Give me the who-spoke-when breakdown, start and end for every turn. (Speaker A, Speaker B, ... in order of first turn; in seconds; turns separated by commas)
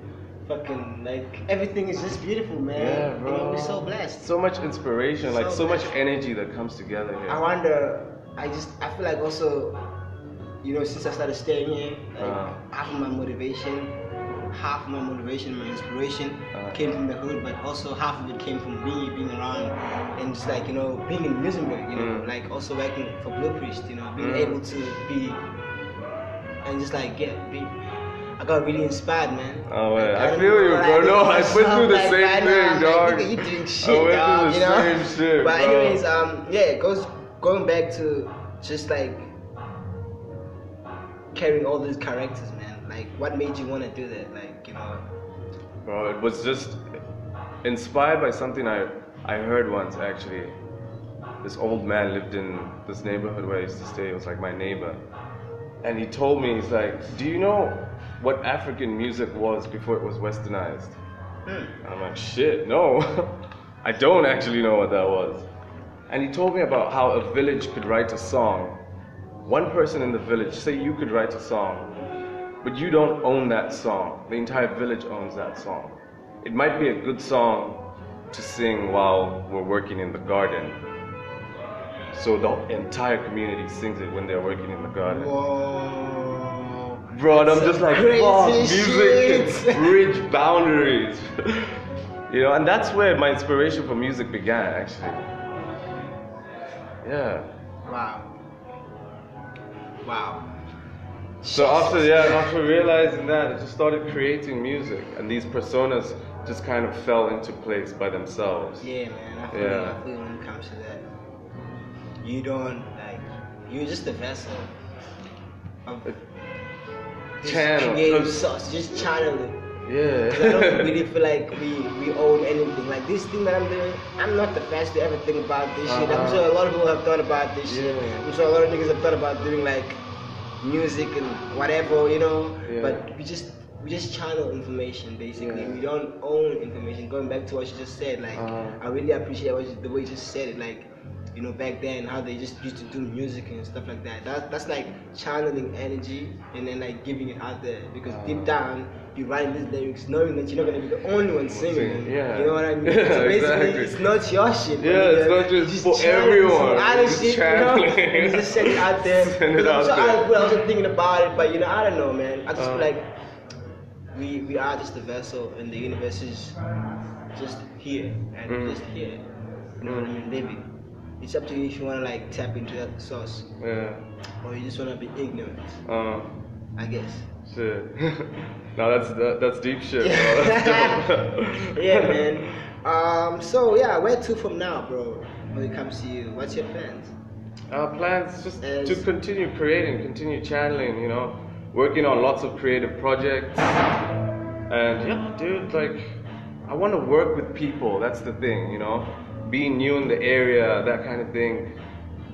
Speaker A: 0.5-4.3, Speaker B: 2.8-7.4, Speaker A: 5.2-5.9, Speaker A: 7.3-9.8, Speaker A: 10.6-13.9, Speaker B: 12.2-12.6, Speaker A: 14.5-25.4, Speaker B: 16.5-16.8, Speaker B: 21.9-22.3, Speaker B: 24.2-24.6, Speaker A: 26.6-27.8, Speaker A: 28.4-39.3, Speaker B: 29.7-36.0, Speaker A: 41.3-45.0, Speaker B: 45.9-46.8, Speaker B: 47.6-50.6, Speaker B: 51.4-55.0, Speaker B: 55.8-61.0, Speaker A: 61.5-61.8, Speaker B: 61.8-65.5, Speaker B: 66.1-68.8, Speaker B: 69.5-71.9, Speaker B: 72.6-80.8, Speaker B: 82.1-85.3, Speaker A: 85.1-90.0, Speaker B: 87.1-95.2, Speaker B: 97.0-97.5, Speaker A: 97.9-98.3, Speaker A: 100.0-100.5, Speaker A: 101.4-102.5, Speaker B: 101.5-108.9, Speaker A: 108.8-111.0, Speaker B: 109.5-110.0, Speaker A: 112.2-114.7, Speaker A: 115.9-116.2, Speaker A: 117.4-119.7, Speaker B: 117.4-118.5, Speaker B: 119.9-121.0, Speaker A: 120.3-130.0, Speaker B: 125.9-126.5, Speaker B: 127.7-128.3, Speaker A: 130.6-163.1, Speaker B: 132.7-133.0, Speaker B: 135.4-135.8, Speaker B: 138.4-138.8, Speaker B: 148.1-148.6, Speaker B: 151.5-154.0, Speaker B: 154.8-160.5, Speaker B: 162.6-162.9, Speaker A: 164.1-166.6, Speaker A: 167.3-169.2, Speaker B: 168.5-168.8, Speaker A: 169.8-173.5, Speaker B: 169.8-170.1, Speaker B: 173.6-174.1, Speaker A: 174.4-175.8, Speaker B: 175.8-176.3, Speaker A: 176.8-177.3, Speaker B: 177.5-182.5, Speaker A: 180.0-187.1, Speaker B: 187.7-193.8, Speaker A: 188.6-189.1, Speaker B: 194.7-201.8